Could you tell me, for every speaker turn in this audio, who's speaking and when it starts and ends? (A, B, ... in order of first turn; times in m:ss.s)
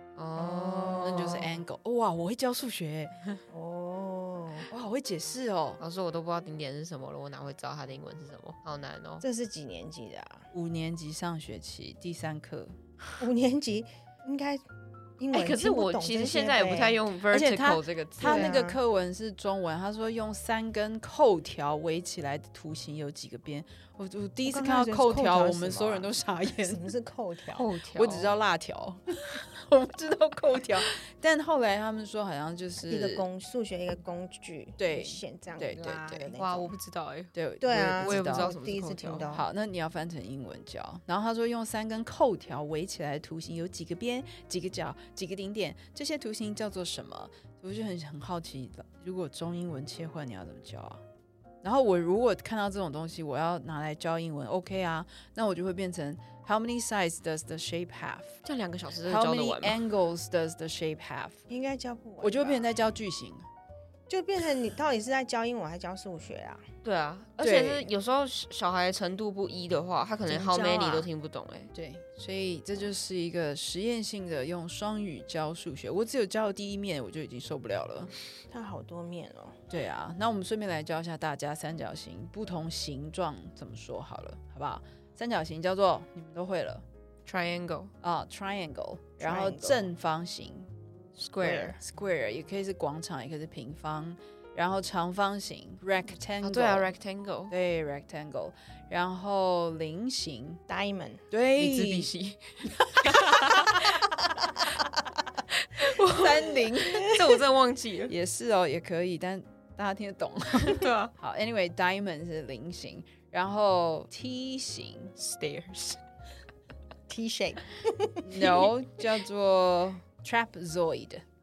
0:00.2-0:01.6 A
0:00.4-0:01.2 B
0:01.0-0:03.1 C
0:03.5-0:04.7 B
0:04.7-0:05.8 C
0:05.8-0:09.2 A
0:09.2-0:10.5 B
0:10.5-0:12.8 C
0:13.2-0:14.6 B
0:15.2-0:17.0 B
0:15.3-0:18.5 A
0:17.3-0:26.8 C
0:18.2-0:18.8 B
0:24.4-0:27.7 B
0:27.5-0:28.3 A
0:27.9-0:33.3 C
0:32.9-0:36.7 B
0:34.8-0:36.4 C
0:36.4-0:37.3 A
0:37.3-0:38.5 C
0:37.6-0:39.4 B
0:37.9-0:39.3 A
0:39.3-0:51.0 C
0:51.6-0:58.4 C
0:58.4-0:59.8 A
0:59.0-1:01.4 C
1:01.5-1:02.7 B
1:02.2-1:03.4 C
1:04.1-1:06.6 B
1:06.8-1:11.7 A
1:07.4-1:07.9 C
1:10.2-1:11.1 B
1:11.7-1:18.1 C
1:18.5-1:19.6 B
1:19.7-1:26.8 C
1:27.2-1:27.9 A
1:28.0-1:30.7 C
1:29.2-1:29.9 B
1:31.2-1:31.8 A
1:31.4-1:36.9 C
1:31.4-1:31.7 B
1:36.4-1:37.5 A
1:37.5-1:40.6 C
1:40.7-1:41.2 B
1:41.3-1:42.1 C
1:41.6-1:44.0 A
1:42.8-1:43.9 C
1:45.5-1:48.1 A
1:45.9-1:47.1 C
1:46.8-1:47.4 B
1:48.1-1:55.1 C
1:50.5-1:51.1 A
1:55.2-1:56.0 A
1:57.1-1:58.7 B
1:58.2-2:01.2 C